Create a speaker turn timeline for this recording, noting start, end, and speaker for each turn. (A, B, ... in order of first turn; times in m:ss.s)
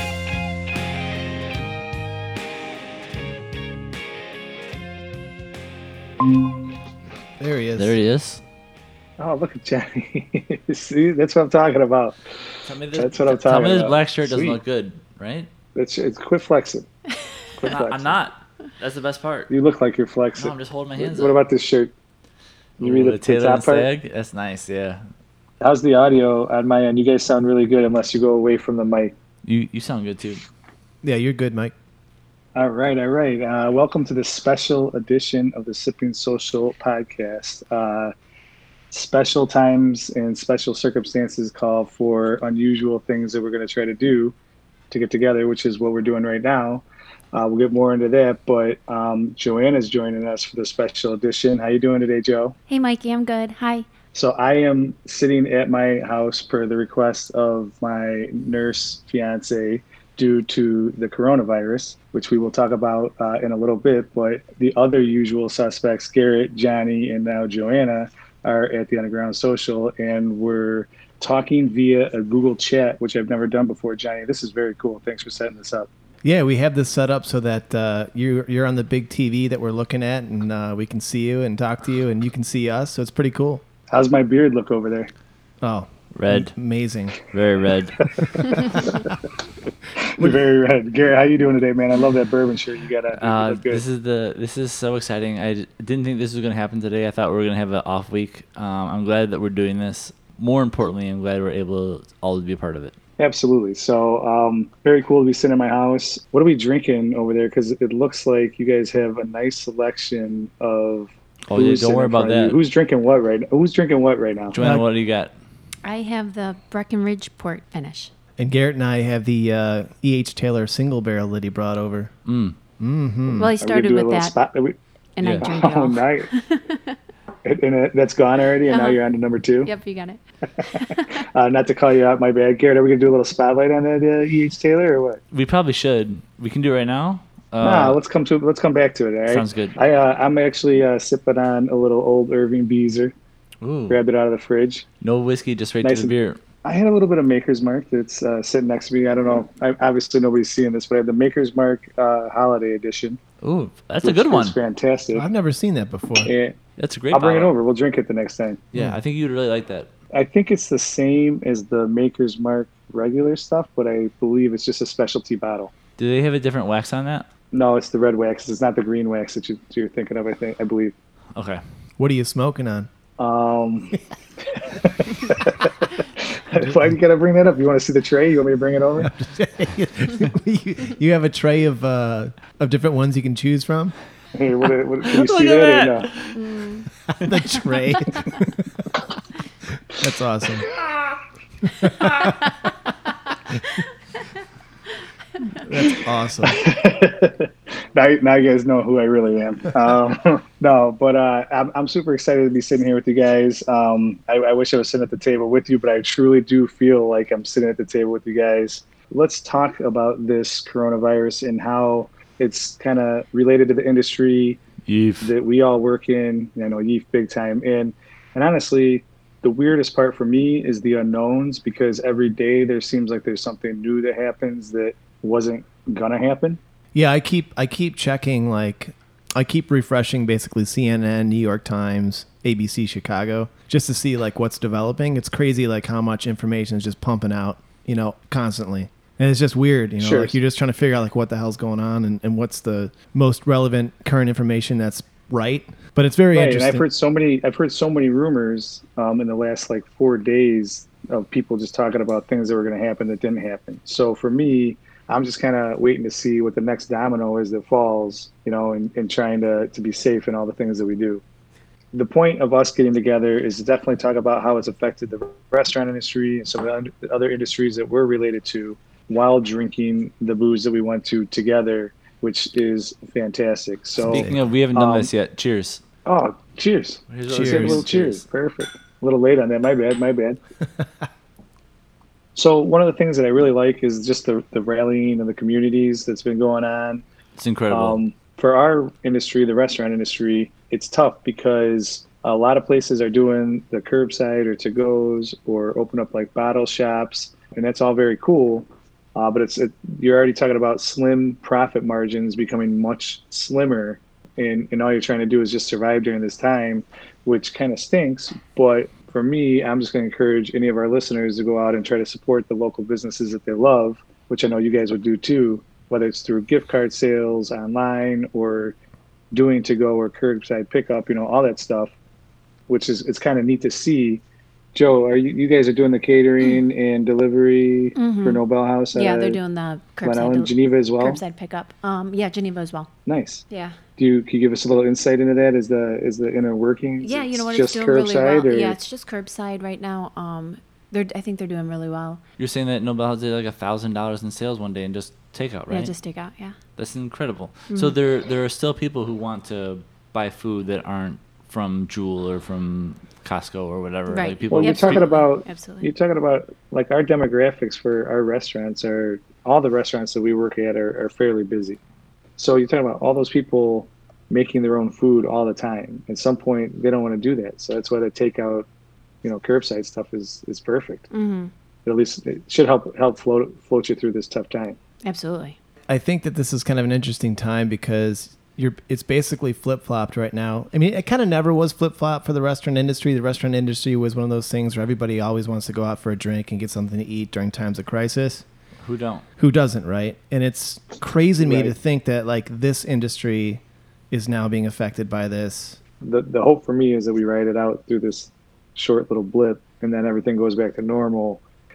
0:07.4-0:08.0 A
0:07.8-0:08.4 B
0:09.2-0:12.2 C
0:12.6-0:15.5 B
0:13.0-0:14.6 C
0:15.8-0:16.9 C
0:17.6-0:18.1 C
0:17.6-0:19.5 B
0:19.5-0:21.9 C
0:20.4-0:21.4 B
0:22.8-0:23.9 C
0:22.8-0:25.0 B
0:25.6-0:29.1 C
0:29.4-0:30.4 B
0:31.0-0:31.7 A
0:32.6-0:38.1 C
0:38.9-0:44.3 C
0:44.9-0:52.6 C
0:52.7-0:53.9 D
0:54.1-1:15.9 C
1:16.2-1:23.6 A
1:23.9-1:25.1 C
1:25.6-1:27.2 A
1:26.1-1:26.5 B
1:27.3-1:28.4 B
1:28.2-1:29.0 C
1:30.0-1:33.8 C
1:33.1-1:43.0 B
1:43.2-1:54.6 C
1:51.5-1:52.6 B
1:54.5-1:55.3 B
1:54.5-1:54.9 A
1:55.8-1:58.1 D
1:58.4-2:02.1 A
2:02.3-2:02.6 B
2:02.8-2:03.5 A
2:03.4-2:04.4 D
2:03.6-2:04.8 C
2:05.2-2:07.0 D
2:05.4-2:06.3 C
2:07.4-2:09.7 C
2:08.7-2:09.0 D
2:09.6-2:11.2 D
2:11.3-2:15.2 C
2:15.3-2:18.0 B
2:17.6-2:23.1 C
2:19.3-2:19.8 B
2:23.6-2:24.0 B
2:23.9-2:24.8 C
2:25.0-2:26.4 B
2:25.8-2:33.2 C
2:33.4-2:34.6 B
2:34.0-2:35.3 C
2:35.1-2:36.3 A
2:36.2-2:36.6 C
2:36.8-2:37.5 B
2:37.1-2:38.6 C
2:38.7-2:39.9 B
2:40.1-2:45.7 C
2:46.0-2:47.3 B
2:47.5-2:50.9 C
2:51.4-2:51.6 B
2:52.0-2:52.9 A
2:53.2-2:54.0 C
2:54.5-2:59.1 C
2:59.0-3:03.9 A
3:04.4-3:06.1 C
3:05.1-3:06.4 B
3:06.3-3:06.9 D
3:07.1-3:08.9 A
3:09.9-3:10.7 A
3:11.7-3:12.5 A
3:15.6-3:16.6 A
3:16.4-3:34.6 C
3:34.9-3:35.3 B
3:35.2-3:46.6 C
3:46.9-4:06.8 A
4:00.0-4:00.3 C
4:06.3-4:21.2 C
4:21.9-4:35.1 C
4:34.0-4:35.8 B
4:34.1-4:34.4 A
4:36.0-4:40.4 C
4:37.1-4:38.2 B
4:37.3-4:37.9 A
4:42.4-4:47.0 C
4:47.4-4:48.0 B
4:47.7-5:18.8 C
5:19.3-5:21.9 C
5:22.7-5:24.2 C
5:24.7-5:29.4 C
5:28.0-5:28.4 D
5:28.9-5:32.9 D
5:30.0-5:31.2 C
5:33.1-5:33.4 C
5:33.5-5:33.8 D
5:34.0-5:38.8 C
5:37.0-5:42.2 D
5:42.4-5:45.9 B
5:45.7-5:46.6 D
5:46.8-5:55.1 B
5:47.7-5:48.0 D
5:54.1-5:55.9 D
5:54.5-6:01.8 C
6:02.4-6:08.7 C
6:09.2-6:11.1 C
6:11.1-6:11.5 D
6:11.8-6:14.8 C
6:15.0-6:15.6 D
6:15.9-6:28.4 A
6:28.8-6:29.2 B
6:29.4-6:35.8 A
6:31.4-6:31.7 C
6:36.0-6:41.4 C